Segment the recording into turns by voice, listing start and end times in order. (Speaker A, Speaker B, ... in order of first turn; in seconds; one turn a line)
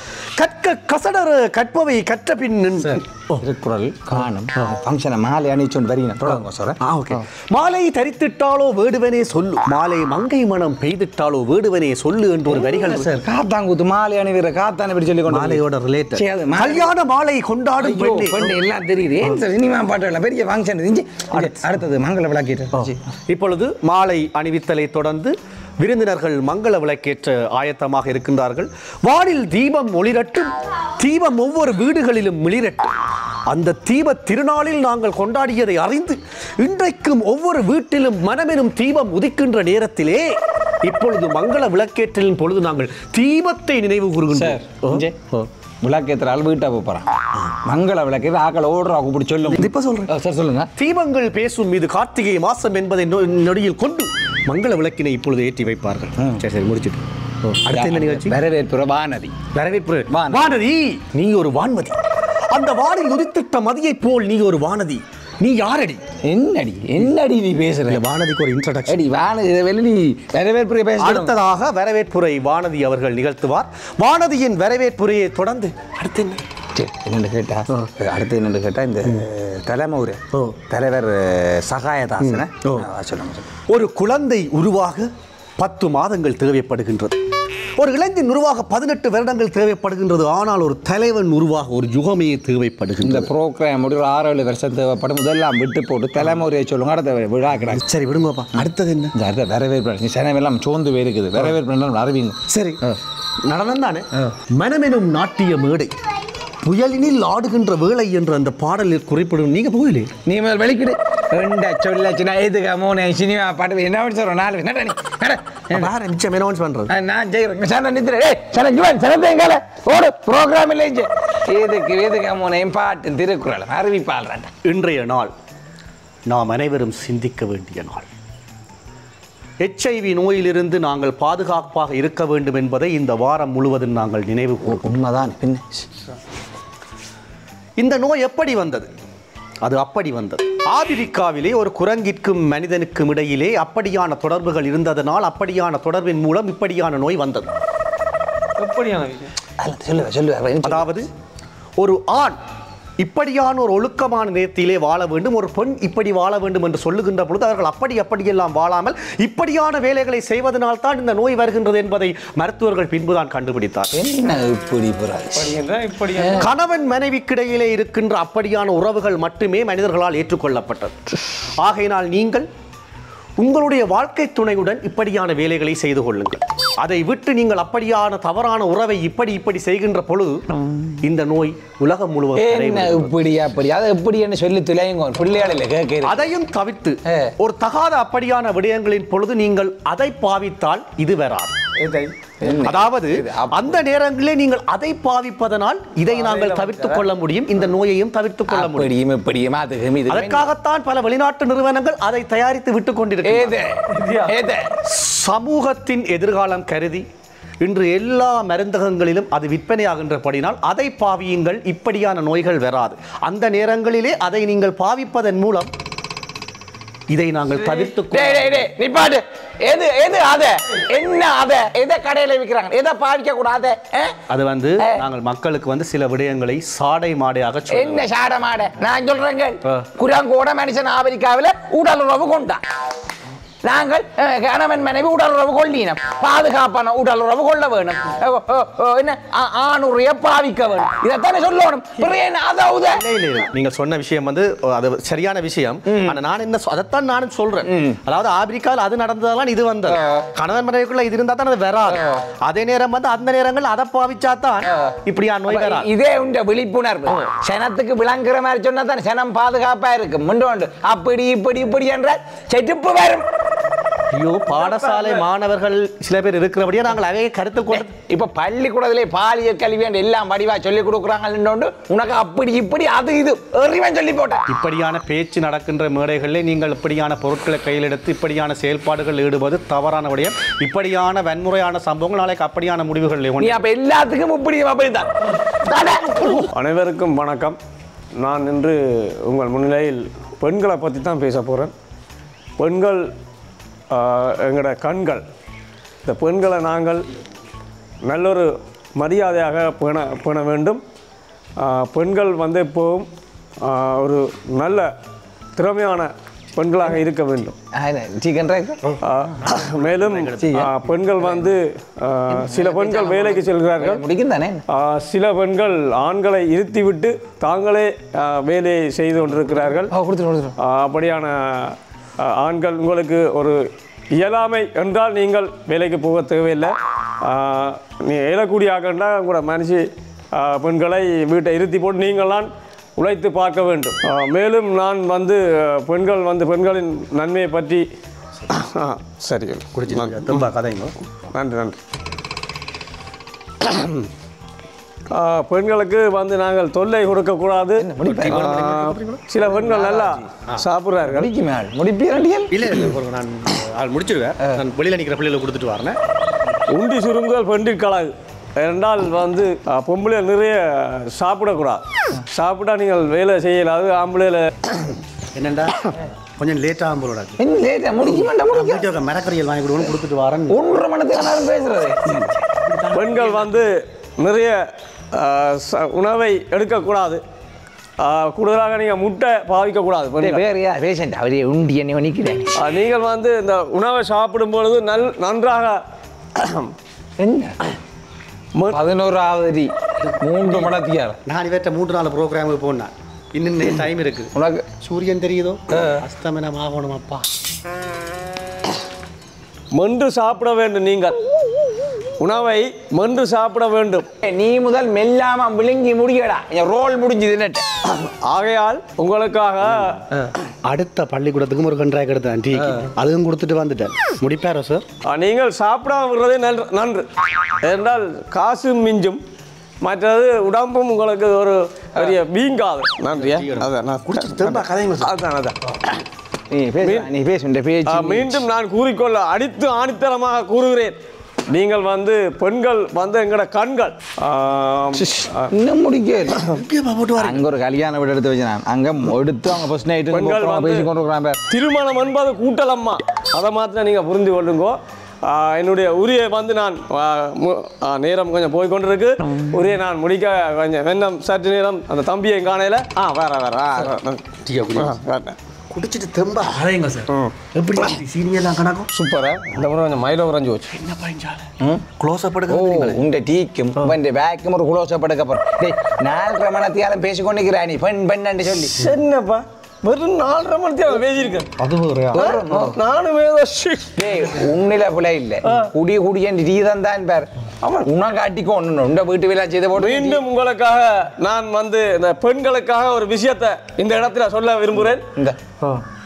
Speaker A: 0.4-3.4
Speaker B: 2.8-6.8
Speaker A: 6.8-13.1
Speaker B: 12.5-15.6
Speaker A: 15.3-18.5
Speaker B: 16.1-16.9
Speaker B: 17.8-22.9
Speaker A: 21.3-21.7
Speaker A: 22.7-32.9
Speaker A: 33.5-45.5
Speaker B: 44.3-45.1
Speaker B: 45.8-50.7
Speaker A: 49.5-50.1
Speaker A: 50.8-58.4
Speaker B: 57.7-59.4
Speaker A: 59.5-62.0
Speaker B: 60.1-60.5
Speaker A: 62.5-66.0
Speaker B: 66.2-68.0
Speaker A: 67.9-69.0
Speaker B: 68.9-71.3
Speaker A: 71.0-76.4
Speaker B: 76.7-83.5
Speaker A: 80.3-80.6
Speaker A: 82.2-82.9
Speaker A: 83.7-87.2
Speaker A: 87.8-93.3
Speaker B: 93.0-97.8
Speaker A: 97.7-99.1
Speaker B: 99.1-102.4
Speaker A: 102.5-102.8
Speaker A: 103.5-105.9
Speaker A: 106.6-110.1
Speaker B: 110.2-115.9
Speaker A: 115.7-116.9
Speaker B: 116.9-124.5
Speaker A: 124.6-125.3
Speaker A: 126.3-128.1
Speaker A: 129.6-134.8
Speaker B: 134.6-135.9
Speaker A: 137.8-138.9
Speaker A: 139.6-147.6
Speaker C: 148.6-149.3
Speaker B: 149.6-151.0
Speaker A: 150.6-151.1
Speaker A: 151.8-152.4
Speaker A: 153.0-164.0
Speaker B: 163.9-165.6
Speaker C: 165.3-166.5
Speaker B: 166.1-166.5
Speaker A: 166.3-171.0
Speaker A: 171.6-172.5
Speaker A: 173.4-180.4
Speaker A: 181.0-183.1
Speaker B: 182.3-186.2
Speaker A: 186.0-191.6
Speaker B: 187.1-187.3
Speaker B: 191.8-193.8
Speaker A: 192.6-198.9
Speaker C: 196.1-197.0
Speaker B: 198.5-200.5
Speaker A: 200.1-203.6
Speaker B: 203.2-204.7
Speaker C: 203.9-204.3
Speaker A: 204.8-207.0
Speaker A: 207.6-215.7
Speaker A: 217.1-218.7
Speaker B: 217.9-224.2
Speaker A: 224.3-228.1
Speaker B: 227.7-232.6
Speaker B: 233.6-243.0
Speaker A: 242.9-255.9
Speaker B: 245.9-246.2
Speaker B: 247.6-248.0
Speaker B: 255.5-263.3
Speaker A: 264.1-267.9
Speaker C: 264.5-265.2
Speaker B: 267.7-274.4
Speaker A: 274.5-283.6
Speaker B: 283.4-286.5
Speaker C: 286.5-287.6
Speaker C: 288.2-291.7
Speaker C: 292.6-293.1
Speaker C: 293.9-295.2
Speaker C: 296.0-297.1
Speaker C: 298.0-300.8
Speaker C: 301.6-303.1
Speaker C: 303.6-304.9
Speaker C: 305.6-307.6
Speaker B: 307.7-308.9
Speaker C: 309.0-314.0
Speaker A: 309.6-310.7
Speaker B: 310.4-310.7
Speaker B: 312.3-314.6
Speaker C: 314.7-319.9
Speaker B: 319.9-320.6
Speaker C: 320.6-337.8
Speaker C: 338.5-340.5
Speaker A: 339.7-340.9
Speaker C: 341.3-341.8
Speaker C: 345.1-351.3
Speaker B: 347.8-348.5
Speaker A: 348.1-349.8
Speaker B: 349.6-350.1
Speaker A: 350.4-350.6
Speaker B: 351.1-352.9
Speaker A: 352.5-356.0
Speaker C: 356.7-364.9
Speaker A: 365.3-367.4
Speaker B: 367.4-368.9
Speaker A: 368.0-370.6
Speaker B: 370.5-372.3
Speaker A: 372.1-373.6
Speaker C: 372.9-374.6
Speaker C: 375.1-377.2
Speaker C: 378.0-380.5
Speaker B: 380.2-382.6
Speaker C: 382.6-385.8
Speaker C: 386.3-386.7
Speaker B: 387.2-387.6
Speaker B: 388.7-391.2
Speaker A: 390.4-390.7
Speaker A: 391.2-397.3
Speaker B: 394.3-394.6
Speaker B: 395.7-396.0
Speaker C: 399.7-401.2
Speaker C: 402.2-404.1
Speaker B: 404.2-407.6
Speaker C: 407.8-410.1
Speaker A: 410.6-414.8
Speaker C: 415.0-417.1
Speaker C: 417.6-419.2
Speaker C: 419.8-426.0
Speaker A: 423.1-425.1
Speaker B: 426.5-428.4
Speaker C: 426.8-427.1
Speaker C: 427.9-430.9
Speaker C: 431.5-435.5
Speaker B: 434.9-436.5
Speaker A: 436.4-437.4
Speaker B: 437.2-441.4
Speaker C: 440.1-440.9
Speaker C: 441.5-455.4
Speaker A: 454.4-455.0
Speaker A: 455.7-458.9
Speaker C: 457.1-457.3
Speaker C: 458.9-460.7
Speaker A: 460.7-463.0
Speaker B: 462.5-468.7
Speaker C: 468.7-471.5
Speaker A: 471.6-472.3
Speaker B: 472.1-472.8
Speaker C: 472.1-474.1
Speaker B: 474.0-480.2
Speaker C: 475.4-475.7
Speaker C: 479.7-485.1